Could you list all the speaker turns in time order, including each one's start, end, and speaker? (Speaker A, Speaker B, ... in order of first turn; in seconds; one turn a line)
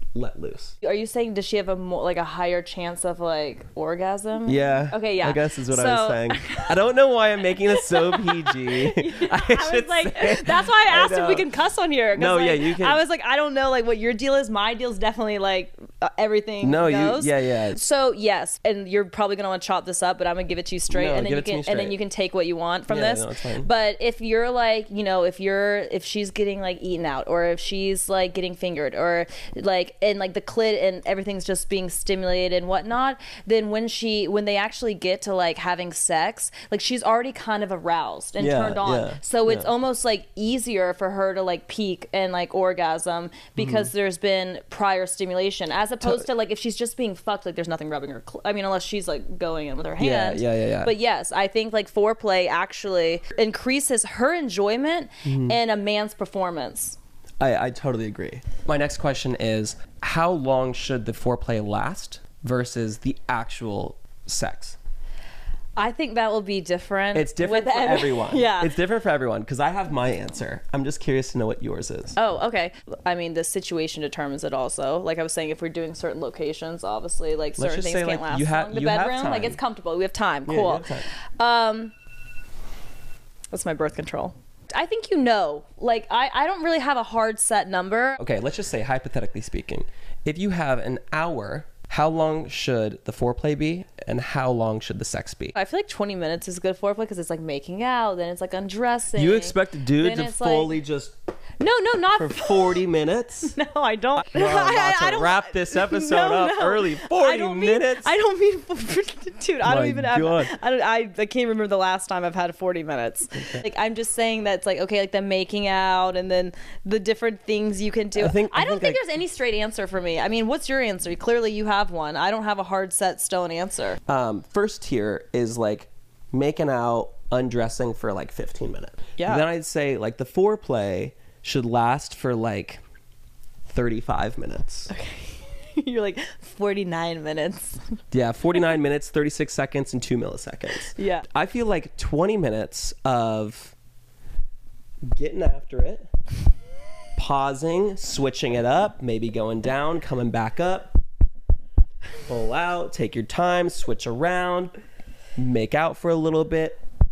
Speaker A: 0.1-0.8
Speaker B: 0.8-6.8
Speaker A: 4.5-11.5
Speaker B: 7.7-57.0
Speaker A: 12.1-13.0
Speaker A: 16.6-17.8
Speaker A: 20.9-22.0
Speaker A: 22.9-23.7
Speaker A: 38.4-39.7
Speaker A: 43.6-43.9
Speaker A: 50.0-50.9
Speaker A: 55.2-55.6
Speaker A: 57.4-64.8
Speaker B: 65.8-68.8
Speaker A: 67.1-72.2
Speaker B: 72.2-81.9
Speaker A: 77.6-79.6
Speaker A: 80.5-81.1
Speaker B: 83.5-88.2
Speaker A: 88.2-95.5
Speaker B: 95.5-100.8
Speaker A: 99.1-101.1
Speaker B: 101.6-102.8
Speaker A: 102.2-103.5
Speaker B: 103.5-124.0
Speaker A: 104.2-108.1
Speaker A: 109.6-110.5
Speaker A: 113.3-113.6
Speaker A: 118.2-119.0
Speaker A: 124.1-132.8
Speaker B: 129.2-129.5
Speaker A: 133.7-134.9
Speaker B: 134.9-138.0
Speaker A: 138.1-143.7
Speaker B: 141.0-141.2
Speaker A: 145.1-146.1
Speaker A: 147.2-151.0
Speaker A: 152.3-154.7
Speaker A: 155.4-156.8